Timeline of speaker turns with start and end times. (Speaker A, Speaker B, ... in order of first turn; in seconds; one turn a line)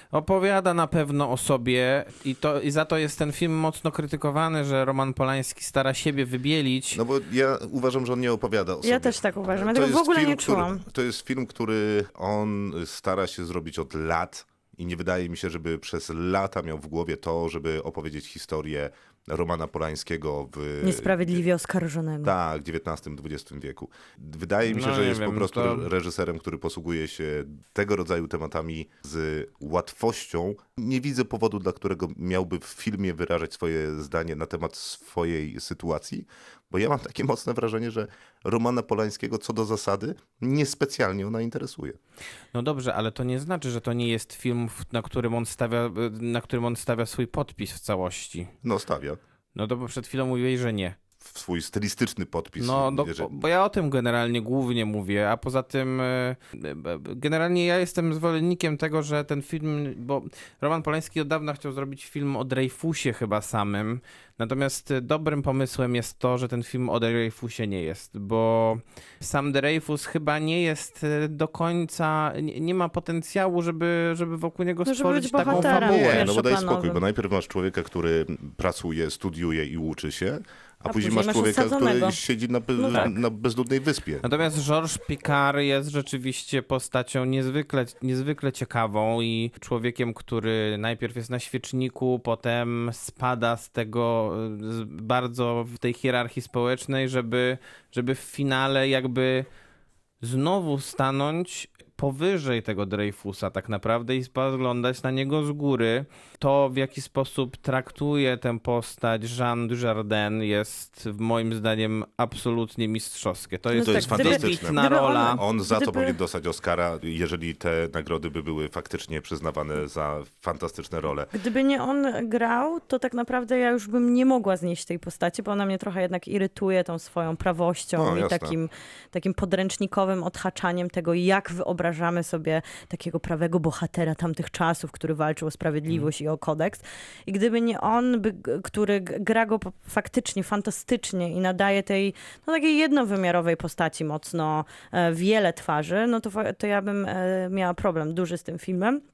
Speaker A: 0.1-7.0
Speaker B: 6.9-21.4
Speaker C: 8.8-10.8
Speaker C: 20.8-22.3
Speaker B: 22.2-42.0
Speaker A: 24.6-25.9
Speaker A: 42.5-48.5
Speaker B: 48.6-49.2
Speaker A: 49.5-51.0
Speaker B: 51.2-53.3
Speaker A: 52.6-76.3
Speaker C: 74.8-77.0
Speaker B: 75.5-84.2
Speaker C: 80.9-82.2
Speaker C: 82.8-83.1
Speaker A: 84.2-99.5
Speaker A: 100.2-115.4
Speaker C: 113.7-116.2
Speaker B: 113.8-121.3
Speaker C: 121.3-149.0
Speaker B: 128.0-128.6